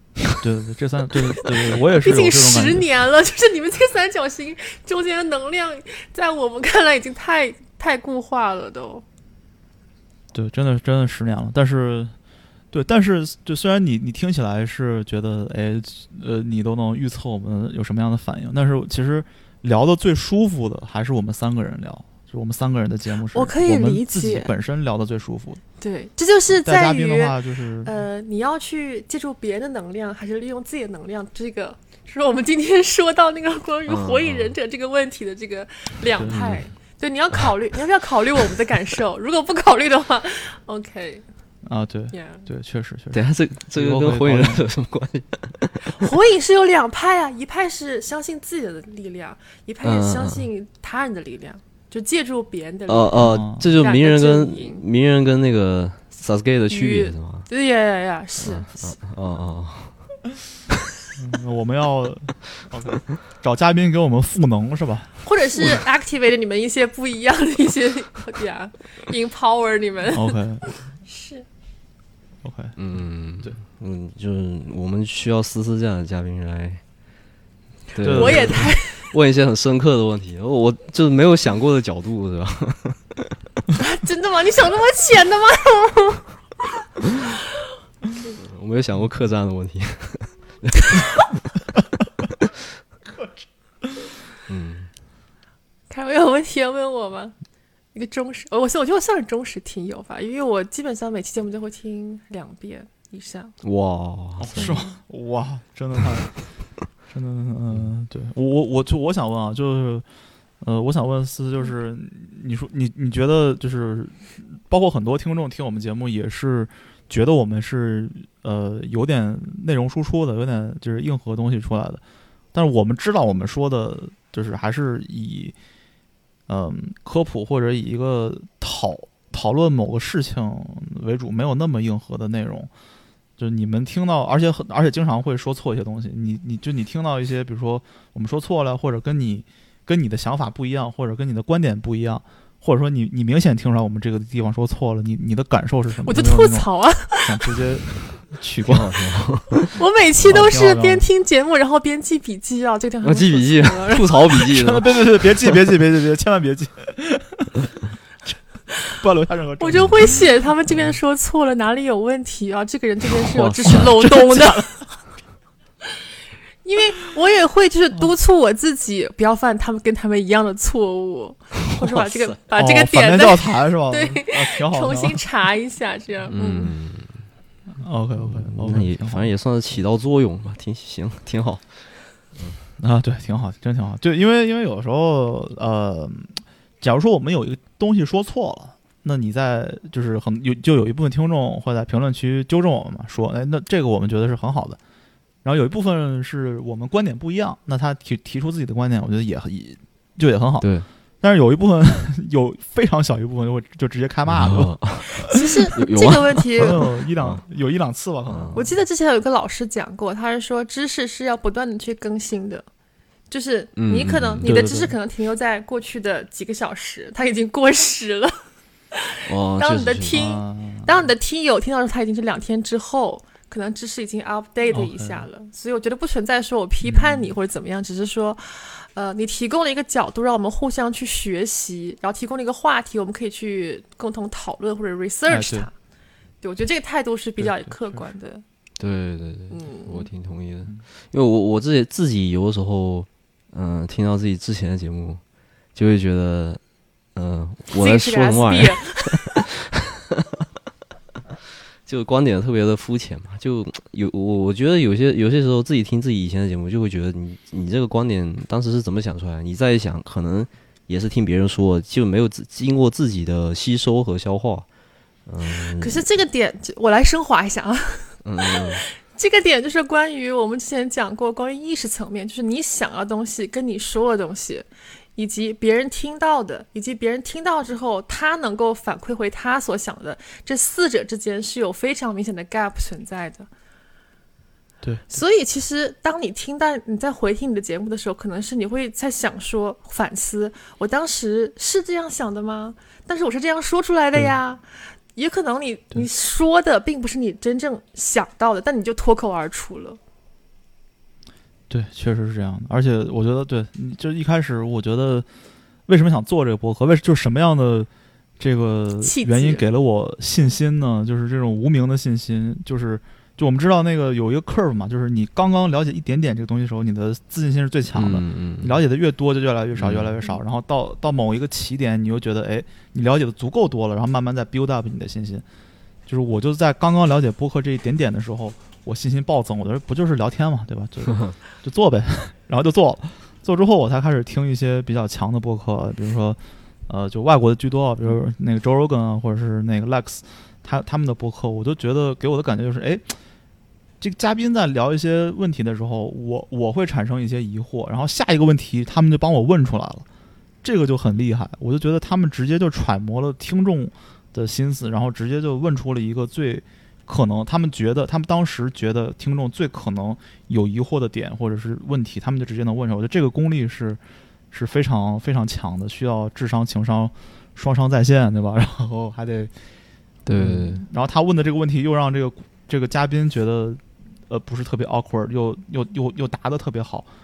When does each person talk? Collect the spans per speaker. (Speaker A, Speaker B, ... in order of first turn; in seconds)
Speaker A: 0.4-2.8, 10.3-12.1, 12.7-25.6, 26.5-28.0, 36.1-36.6, 41.6-44.6, 53.2-53.7, 61.2-65.8, 70.1-70.6, 72.4-72.8, 78.0-78.7, 104.4-106.4, 107.1-110.0, 110.6-122.0, 122.5-125.5, 126.5-132.7, 133.4-149.1, 150.2-151.0, 154.5-157.5, 159.0-160.2, 164.0-164.6, 172.5-175.2, 177.8-179.3, 182.8-194.8, 195.4-200.7, 201.2-205.4, 206.6-208.7, 214.4-214.9, 220.1-221.0, 224.7-225.3, 226.8-227.3, 235.3-235.7, 237.4-238.1, 301.7-305.3, 305.9-307.9, 308.4-325.4, 326.1-343.1, 344.0-350.1, 350.6-364.0, 364.5-369.5, 370.3-377.1
Speaker B: 1.7-9.0, 23.3-24.5, 25.8-41.2, 42.1-42.4, 45.8-54.8, 56.7-59.0, 65.2-71.4, 78.1-79.1, 83.7-86.2, 95.9-97.3, 97.9-103.5, 104.5-104.9, 146.0-147.5, 149.8-154.2, 159.6-164.8, 166.6-176.7, 205.3-206.8, 208.5-212.7, 213.3-218.3, 218.9-235.7, 236.4-238.4, 239.5-240.1, 247.7-249.2, 265.5-283.5, 285.1-294.6, 295.1-300.0, 309.0-309.7
Speaker C: 33.9-34.5, 36.3-36.6, 43.1-45.9, 49.8-50.4, 52.9-57.5, 58.4-60.0, 72.8-76.8, 77.9-83.3, 88.3-91.3, 94.5-94.9, 103.6-104.8, 148.6-149.7, 153.0-155.5, 163.3-163.8, 176.3-177.2, 178.2-182.6, 200.6-200.9, 204.3-207.4, 208.3-208.6, 213.8-214.6, 219.3-220.2, 238.8-245.2, 245.7-246.6, 247.1-250.2, 251.8-264.6, 265.2-266.0, 268.2-268.8, 317.9-318.8, 319.8-320.1, 370.2-370.8